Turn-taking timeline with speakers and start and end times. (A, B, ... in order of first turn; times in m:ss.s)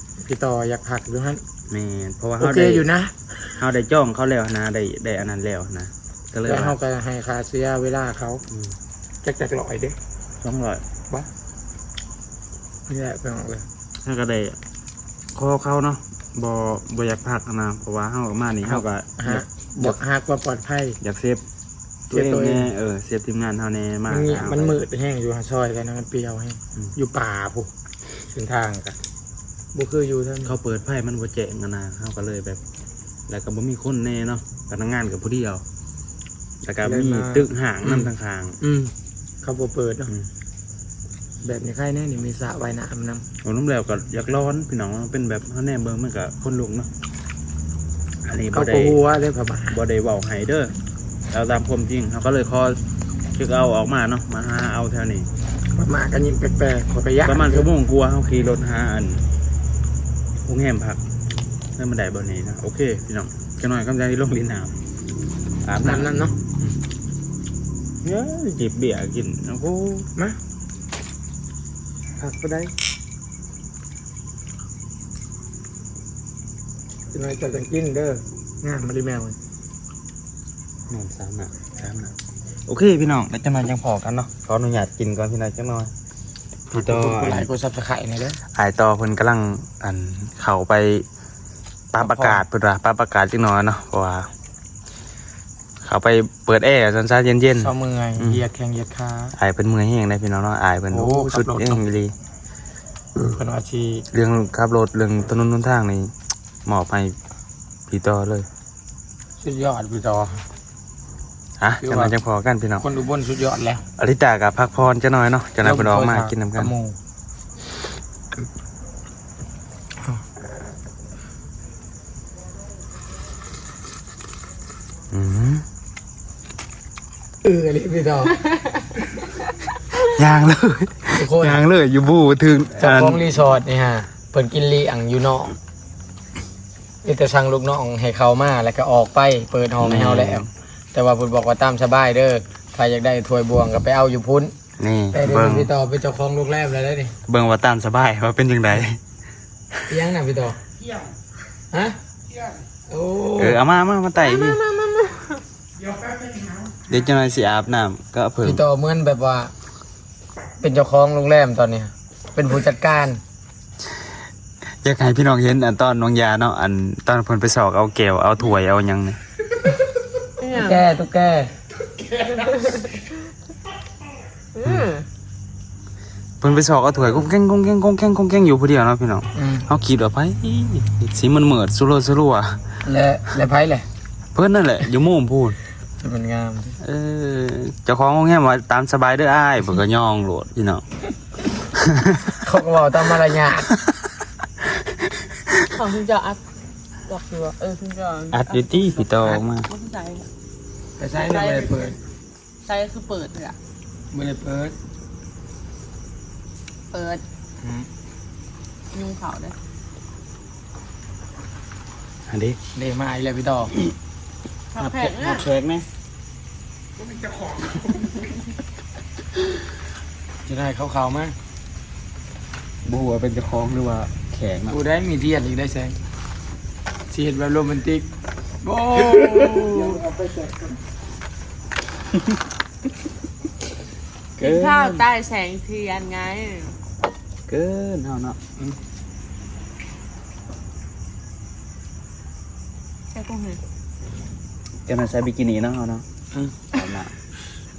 0:00.2-0:01.4 A
0:01.7-0:02.8 B
0:02.4-0:03.5 A
0:03.6-0:06.8 B
0:06.4-0:08.4 A
0:08.5-0:08.7 B
0:09.2-0:10.0 A
0:10.4-0:10.8 B
0:12.9-0:13.6 A
0:14.0-0:14.6 B
0:15.3-0:20.0 B
0:18.7-0:21.0 A
0:21.0-0:21.4 B
0:22.1-0:24.8 B
0:22.1-0:22.7 A
0:24.1-0:27.7 A
0:28.3-0:29.0 A
0:29.7-0:30.5 A
0:30.4-0:32.6 B
0:33.3-0:35.6 B
0:36.6-0:38.6 B
0:36.8-0:40.1 A
0:41.4-0:43.2 A
0:43.4-0:46.9 B
0:48.2-0:49.0 B
0:48.5-0:49.8 A
0:49.7-0:50.7 B
0:51.3-0:52.8 B
0:53.3-0:55.3 B
0:55.8-0:57.7 A
0:57.2-0:59.2 B
1:00.4-1:01.0 B
1:01.8-1:04.7 B
1:05.6-1:06.8 B
1:05.8-1:06.3 A
1:08.0-1:10.1 B
1:12.2-1:12.7 B
1:17.1-1:19.4 A
1:20.9-1:22.1 B
1:22.7-1:25.9 B
1:26.7-1:28.4 A
1:26.7-1:27.5 B
1:28.5-1:31.0 B
1:31.9-1:34.3 B
1:32.0-1:32.4 A
1:35.8-1:38.4 B
1:37.6-1:39.3 A
1:39.4-1:42.1 B
1:40.9-1:41.8 A
1:43.2-1:44.0 A
1:44.1-1:46.1 B
1:46.6-1:47.2 B
1:47.9-1:48.5 B
1:49.4-1:50.4 A
1:51.6-1:52.8 B
1:51.8-1:52.1 A
1:52.8-1:53.8 A
1:54.0-1:56.7 B
1:55.6-1:57.0 A
2:05.1-2:05.6 B
2:07.4-2:08.4 A
2:10.1-2:13.2 B
2:11.1-2:11.6 A
2:12.8-2:15.6 A
2:17.0-2:20.4 A
2:19.8-2:20.5 B
2:20.9-2:24.5 A
2:24.8-2:25.7 B
2:25.1-2:27.1 A
2:27.3-2:29.0 B
2:29.9-2:30.6 A
2:30.8-2:31.1 C
2:31.7-2:32.0 A
2:32.3-2:32.6 C
2:32.9-2:33.6 A
2:33.4-2:34.6 B
2:34.2-2:35.4 D
2:35.7-2:37.0 C
2:36.9-2:38.6 B
2:38.4-2:39.5 A
2:40.6-2:43.2 A
2:44.8-2:49.2 B
2:50.4-2:50.8 D
2:50.5-2:51.5 A
2:52.3-2:53.1 D
2:54.5-2:55.0 D
2:56.4-3:02.6 B
2:59.3-2:59.7 A
3:02.8-3:03.8 A
3:04.3-3:05.6 B
3:06.0-3:06.8 A
3:06.8-3:10.8 B
3:11.8-3:12.2 B
3:12.4-3:13.7 A
3:15.7-3:16.4 D
3:17.0-3:20.3 D
3:18.3-3:19.7 B
3:21.0-3:22.0 A
3:21.1-3:21.8 D
3:22.6-3:23.6 D
3:24.1-3:24.7 A
3:26.9-3:27.2 D
3:27.6-3:27.9 A
3:28.9-3:29.6 D
3:32.3-3:32.6 B
3:32.7-3:33.7 A
3:34.7-3:35.5 D
3:34.8-3:35.8 B
3:37.0-3:38.2 C
3:40.4-3:41.3 A
3:42.8-3:44.8 B
3:44.7-3:46.0 A
3:47.1-3:48.1 A
3:48.6-3:50.0 A
3:49.3-3:50.8 C
3:54.4-3:55.0 B
3:54.4-3:56.8 D
3:57.5-3:58.4 B
4:03.1-4:03.6 D
4:04.9-4:06.0 B
4:06.7-4:07.1 B